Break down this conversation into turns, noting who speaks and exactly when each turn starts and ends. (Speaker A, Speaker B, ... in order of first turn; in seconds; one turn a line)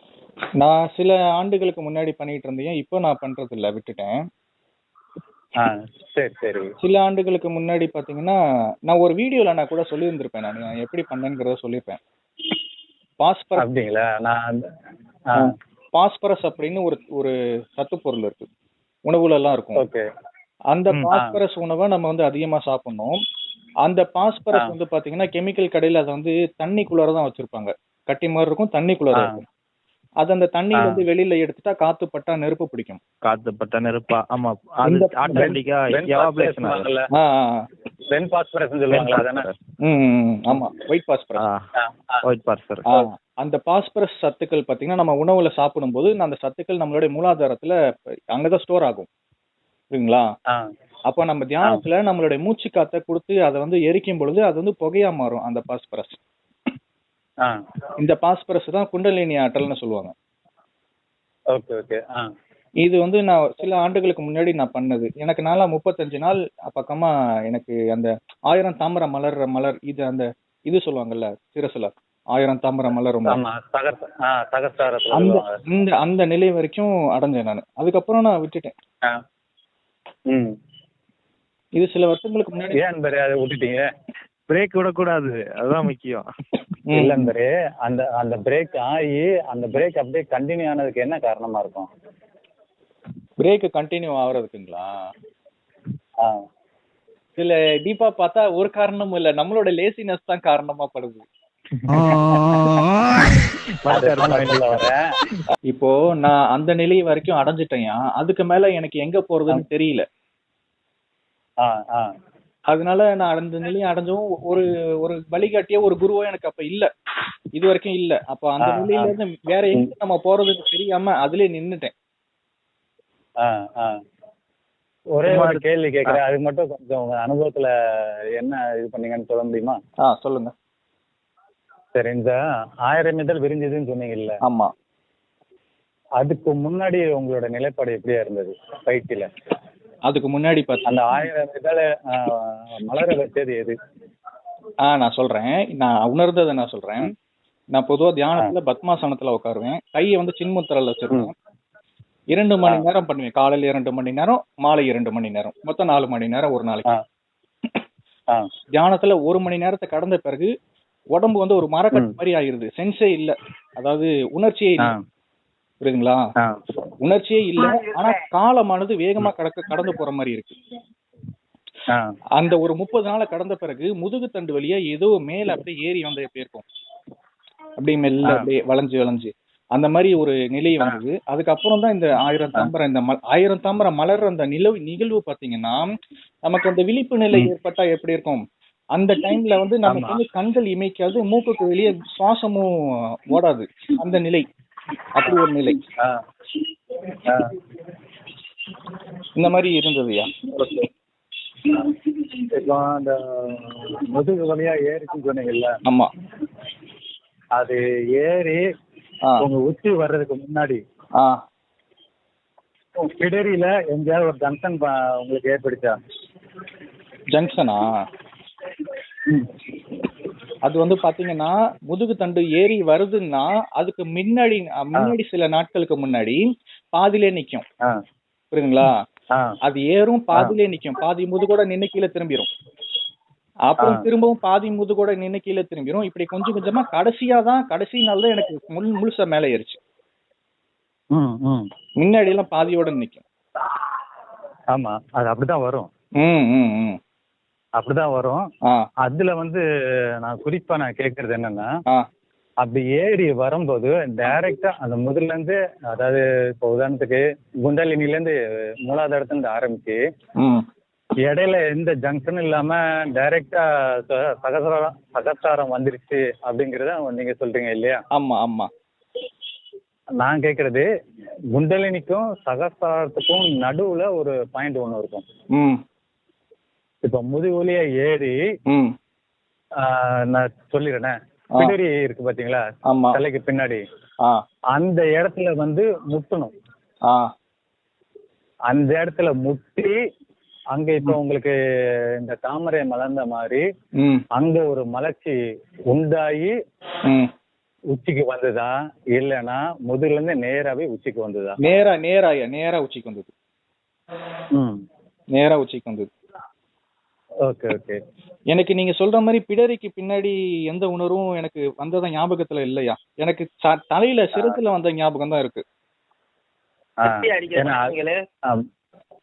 Speaker A: 0.6-4.2
Speaker B: 5.6-6.7
Speaker A: 6.8-8.4
Speaker A: 8.9-12.0
Speaker A: 13.2-13.6
Speaker B: 13.6-14.6
Speaker A: 15.4-18.5
Speaker A: 19.1-19.8
Speaker B: 19.8-20.0
Speaker A: 20.7-23.2
Speaker A: 23.8-29.4
Speaker B: 29.1-29.4
Speaker A: 30.2-33.0
Speaker B: 30.8-31.0
Speaker C: 33.2-36.9
Speaker A: 34.9-35.5
Speaker B: 35.3-37.1
Speaker A: 37.2-37.6
Speaker B: 38.1-39.5
Speaker C: 38.9-39.5
Speaker A: 39.9-41.4
Speaker C: 41.4-41.7
Speaker B: 41.8-42.2
Speaker C: 42.2-42.9
Speaker A: 42.9-47.8
Speaker A: 48.3-49.1
Speaker A: 49.9-50.3
Speaker A: 51.1-56.2
Speaker A: 58.0-60.1
Speaker B: 61.5-62.2
Speaker A: 62.9-73.4
Speaker B: 73.3-75.5
Speaker A: 75.1-78.7
Speaker A: 81.7-82.8
Speaker B: 82.7-83.9
Speaker C: 84.5-86.2
Speaker A: 86.9-87.3
Speaker B: 86.9-91.9
Speaker A: 93.4-94.9
Speaker A: 97.4-101.2
Speaker C: 103.8-104.8
Speaker B: 103.9-105.1
Speaker A: 105.7-110.0
Speaker B: 111.6-112.0
Speaker A: 112.7-116.9
Speaker A: 117.5-121.9
Speaker B: 118.6-119.1
Speaker B: 123.4-124.0
Speaker B: 125.2-127.7
Speaker C: 125.3-125.6
Speaker B: 128.4-129.8
Speaker A: 130.0-130.5
Speaker B: 131.9-134.4
Speaker A: 134.4-134.7
Speaker B: 136.2-139.3
Speaker A: 140.1-140.8
Speaker B: 140.9-143.7
Speaker A: 144.8-147.1
Speaker A: 147.7-151.3
Speaker A: 152.3-156.8
Speaker A: 158.8-160.5
Speaker A: 161.1-164.9
Speaker A: 165.8-166.2
Speaker B: 166.4-166.8
Speaker A: 167.0-170.6
Speaker A: 172.4-176.6
Speaker A: 177.8-185.9
Speaker A: 186.4-188.4
Speaker A: 188.9-194.5
Speaker B: 189.9-190.2
Speaker A: 195.1-195.8
Speaker B: 197.1-197.5
Speaker A: 199.3-200.3
Speaker B: 200.5-200.9
Speaker B: 201.6-205.7
Speaker A: 205.8-206.1
Speaker B: 207.6-208.6
Speaker B: 209.4-210.8
Speaker A: 211.2-211.4
Speaker B: 213.0-215.9
Speaker A: 217.3-217.9
Speaker A: 220.6-226.4
Speaker A: 226.9-227.6
Speaker A: 228.5-229.0
Speaker A: 229.6-232.5
Speaker A: 233.6-239.8
Speaker B: 233.8-234.0
Speaker B: 241.1-241.7
Speaker A: 242.0-243.2
Speaker B: 244.7-245.9
Speaker A: 246.2-247.0
Speaker B: 247.8-248.4
Speaker B: 249.0-249.6
Speaker B: 250.2-251.7
Speaker B: 252.6-260.0
Speaker B: 261.2-268.0
Speaker A: 268.1-268.7
Speaker B: 270.2-270.8
Speaker B: 271.6-275.2
Speaker A: 275.6-275.8
Speaker B: 277.0-278.4
Speaker A: 278.7-278.9
Speaker B: 279.8-283.8
Speaker A: 282.9-283.2
Speaker B: 284.7-286.5
Speaker B: 288.7-289.9
Speaker B: 290.7-291.6
Speaker B: 292.2-293.6
Speaker A: 294.0-294.2
Speaker B: 294.4-295.3
Speaker B: 295.9-296.5
Speaker A: 297.1-297.3
Speaker B: 297.9-301.6
Speaker A: 301.6-303.3
Speaker B: 304.6-304.8
Speaker A: 305.3-306.1
Speaker B: 307.5-308.0
Speaker A: 308.5-315.6
Speaker B: 317.0-317.9